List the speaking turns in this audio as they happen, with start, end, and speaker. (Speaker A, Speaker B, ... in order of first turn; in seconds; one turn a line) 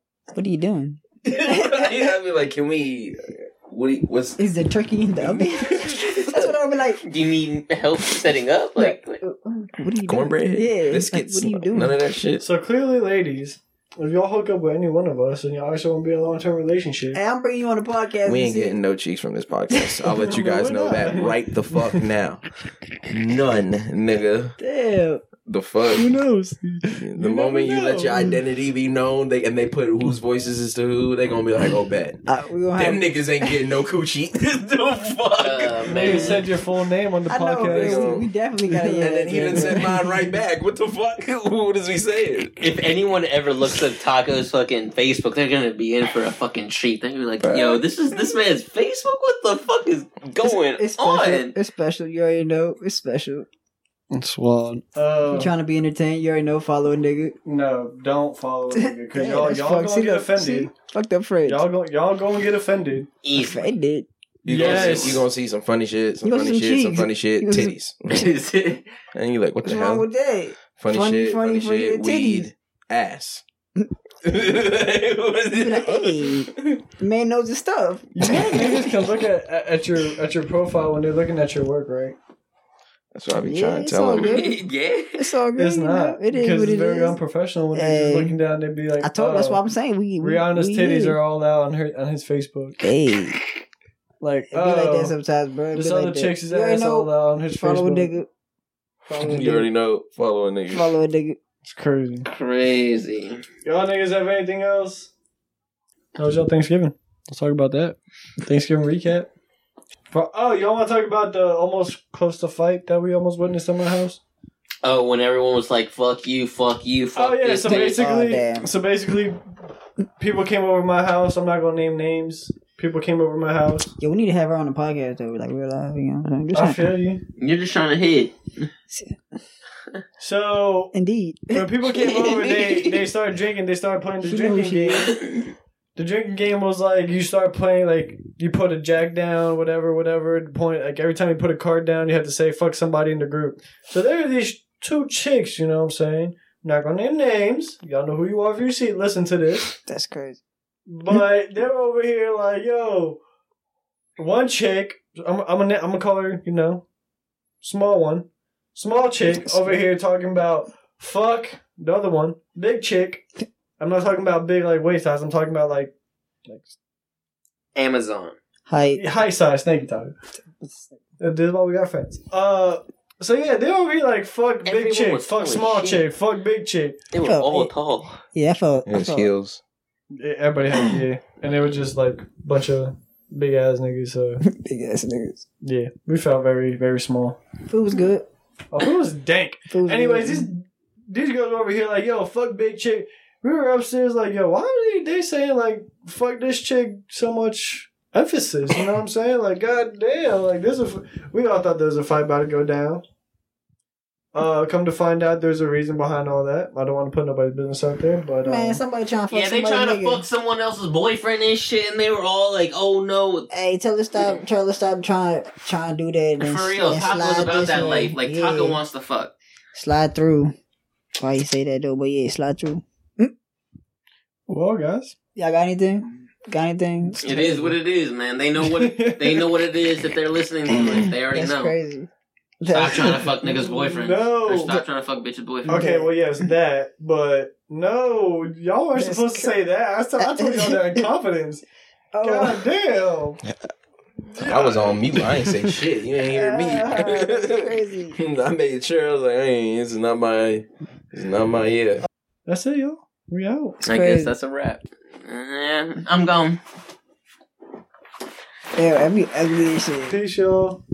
Speaker A: 0.3-2.1
Speaker B: 1.2-4.4
Speaker A: 4.4-7.0
Speaker B: 5.3-6.1
Speaker C: 6.1-6.5
Speaker C: 7.0-9.2
Speaker A: 8.8-11.9
Speaker B: 10.0-12.4
Speaker D: 12.4-17.2
Speaker A: 17.1-18.8
Speaker B: 18.2-22.4
Speaker D: 20.0-22.0
Speaker B: 23.1-24.6
Speaker A: 24.6-25.2
Speaker B: 25.4-26.1
Speaker D: 25.9-28.3
Speaker B: 26.9-32.2
Speaker A: 32.3-33.5
Speaker B: 32.8-36.5
Speaker C: 35.4-36.5
Speaker D: 35.9-38.1
Speaker A: 37.3-40.1
Speaker B: 37.6-38.3
Speaker D: 38.8-39.8
Speaker B: 39.0-42.6
Speaker C: 42.6-51.5
Speaker B: 47.4-47.8
Speaker A: 50.5-53.5
Speaker D: 54.1-55.5
Speaker A: 55.2-57.4
Speaker D: 57.5-60.7
Speaker A: 58.7-61.7
Speaker D: 61.5-63.1
Speaker C: 63.2-63.7
Speaker A: 63.3-64.1
Speaker B: 64.5-68.3
Speaker D: 64.5-65.2
Speaker C: 64.5-65.3
Speaker A: 66.2-67.7
Speaker C: 68.1-68.9
Speaker B: 69.1-70.1
Speaker A: 69.6-72.5
Speaker B: 70.8-73.4
Speaker B: 74.2-76.8
Speaker A: 75.5-78.9
Speaker D: 78.1-82.2
Speaker B: 83.1-84.5
Speaker A: 83.4-84.6
Speaker C: 84.1-85.3
Speaker A: 85.2-87.2
Speaker D: 85.5-89.6
Speaker A: 87.7-88.4
Speaker A: 89.0-91.2
Speaker D: 90.2-92.8
Speaker A: 92.8-93.4
Speaker D: 94.2-95.1
Speaker A: 94.5-98.3
Speaker D: 95.7-98.1
Speaker A: 99.1-99.7
Speaker B: 99.2-100.9
Speaker A: 100.7-101.4
Speaker D: 101.6-102.3
Speaker C: 102.3-103.4
Speaker D: 103.6-105.1
Speaker D: 106.2-109.3
Speaker D: 110.1-114.2
Speaker C: 114.8-118.0
Speaker D: 117.2-119.4
Speaker A: 117.6-118.7
Speaker D: 120.2-123.9
Speaker A: 124.0-127.0
Speaker D: 126.5-127.2
Speaker C: 127.4-128.7
Speaker A: 128.9-129.2
Speaker D: 130.2-130.9
Speaker A: 130.9-131.9
Speaker D: 131.5-135.2
Speaker C: 132.0-132.9
Speaker A: 134.2-135.2
Speaker D: 135.9-149.7
Speaker A: 149.8-150.4
Speaker D: 150.9-153.2
Speaker D: 154.2-156.8
Speaker D: 157.6-165.9
Speaker A: 159.2-159.8
Speaker D: 166.4-166.7
Speaker C: 167.7-168.4
Speaker A: 168.7-169.0
Speaker D: 168.9-170.1
Speaker D: 171.2-177.0
Speaker C: 174.6-176.1
Speaker C: 177.1-178.2
Speaker A: 177.2-177.7
Speaker A: 178.3-179.3
Speaker B: 178.9-179.6
Speaker D: 180.1-184.4
Speaker A: 184.4-185.4
Speaker D: 185.6-187.4
Speaker A: 187.7-188.3
Speaker D: 188.7-203.0
Speaker A: 189.7-190.5
Speaker D: 204.3-208.8
Speaker A: 208.4-210.2
Speaker C: 209.3-213.5
Speaker A: 213.5-218.8
Speaker C: 216.4-219.3
Speaker A: 219.7-220.5
Speaker A: 221.2-223.3
Speaker D: 224.5-225.1
Speaker A: 225.4-227.7
Speaker C: 227.2-231.7
Speaker D: 228.6-229.5
Speaker A: 230.7-232.1
Speaker A: 232.6-233.7
Speaker C: 232.7-235.9
Speaker D: 233.9-234.8
Speaker A: 235.7-236.1
Speaker D: 235.7-241.6
Speaker A: 238.9-239.5
Speaker A: 240.2-241.1
Speaker A: 242.1-242.6
Speaker D: 242.2-243.4
Speaker D: 244.4-245.6
Speaker B: 244.4-252.0
Speaker A: 246.3-248.2
Speaker D: 252.5-253.8
Speaker A: 253.8-254.3
Speaker C: 253.9-256.6
Speaker A: 258.7-260.2
Speaker D: 260.1-260.8